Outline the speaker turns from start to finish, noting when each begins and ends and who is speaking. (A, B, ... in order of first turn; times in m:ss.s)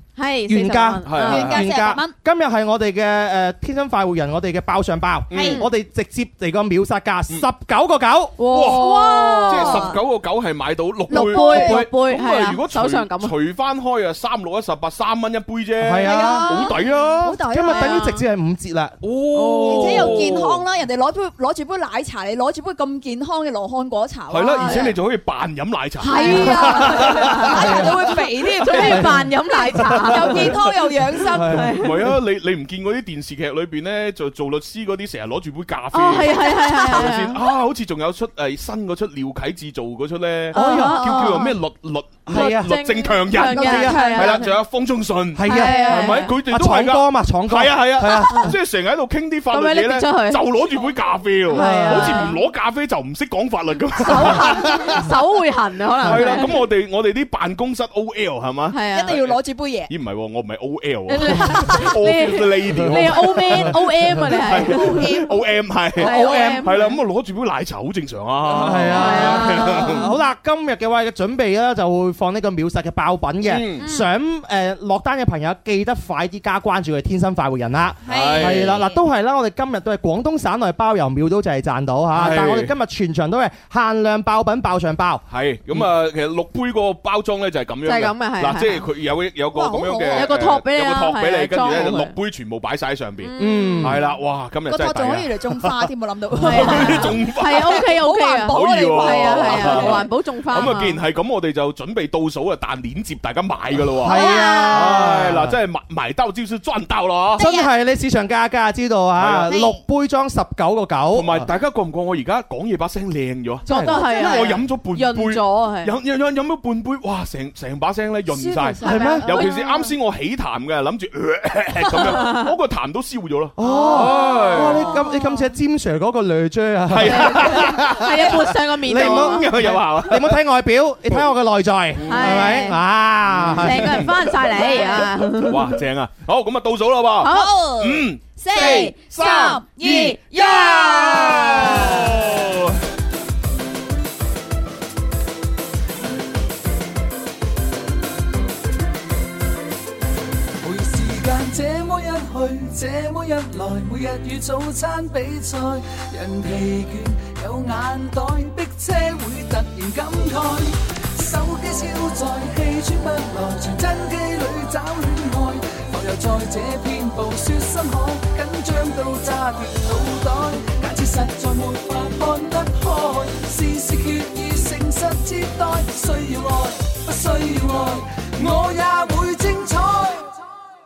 0:00.2-0:01.6 A
0:00.5-0:08.4 B
0:01.0-0:01.6 C
0:01.2-0:02.1 D
0:05.3-0:05.6 C
0:05.3-0:05.6 D
0:05.4-0:05.6 A
0:08.4-0:09.9 A
0:08.4-0:17.4 C
0:08.7-0:10.0 D
0:11.1-0:11.8 D
0:11.1-0:13.3 A
0:15.8-0:16.6 B
0:16.0-0:18.0 D
0:17.4-0:19.0 B
0:17.7-0:18.2 A
0:19.0-0:20.6 C
0:19.3-0:20.4 A
0:19.6-0:25.0 D
0:24.3-0:28.9 C
0:24.6-0:25.0 A
0:26.0-0:30.6 A
0:26.0-0:31.6 D
0:27.5-0:27.8 B
0:28.8-0:29.2 B
0:31.3-0:31.7 B
0:31.4-0:32.1 A
0:31.7-0:55.1 C
0:35.9-0:37.4 A
0:36.3-0:37.0 D
0:40.5-0:41.6 A
0:40.5-0:41.0 B
0:40.6-0:41.4 D
0:42.3-0:42.8 B
0:42.3-0:44.5 A
0:43.4-0:44.0 B
0:43.6-0:44.4 D
0:45.4-0:48.5 B
0:45.5-0:46.4 A
0:45.5-0:46.0 D
0:49.5-0:50.4 A
0:51.5-0:52.4 A
0:51.5-0:52.2 B
0:54.0-0:56.5 A
0:56.0-1:10.0 C
0:58.7-0:59.2 A
0:58.9-0:59.9 D
1:01.1-1:05.2 A
1:04.4-1:05.4 D
1:06.0-1:07.0 A
1:06.0-1:06.6 B
1:08.5-1:25.2 B
1:08.8-1:10.0 A
1:13.4-1:13.8 C
1:13.8-1:14.1 A
1:18.0-1:19.0 D
1:18.0-1:18.8 C
1:22.1-1:22.7 C
1:25.3-1:37.8 C
1:27.8-1:28.8 A
1:29.5-1:30.3 D
1:30.1-1:32.1 A
1:33.2-1:34.0 A
1:33.4-1:34.0 B
1:34.7-1:40.0 D
1:36.4-1:41.0 A
1:38.5-1:47.4 C
1:44.0-1:45.5 B
1:44.1-1:45.0 D
1:47.3-1:47.7 D
1:47.4-1:51.5 B
1:49.2-1:49.6 C
1:49.4-1:49.8 D
1:51.1-2:04.9 C
1:53.7-1:54.0 B
1:53.7-1:55.9 A
1:54.0-1:54.5 D
1:58.3-1:59.9 D
1:58.8-1:59.3 B
1:58.9-1:59.6 A
2:01.9-2:02.5 A
2:03.6-2:07.7 B
2:03.6-2:04.2 D
2:04.5-2:05.0 A
2:06.9-2:10.4 C
2:07.0-2:09.5 A
2:08.8-2:14.0 B
2:11.9-2:12.5 C
2:12.0-2:12.8 A
2:13.2-2:14.3 C
2:13.6-2:15.6 A
2:14.4-2:15.1 D
2:15.3-2:22.8 C
2:17.2-2:17.6 A
2:17.2-2:22.2 D
2:30.6-3:00.4 E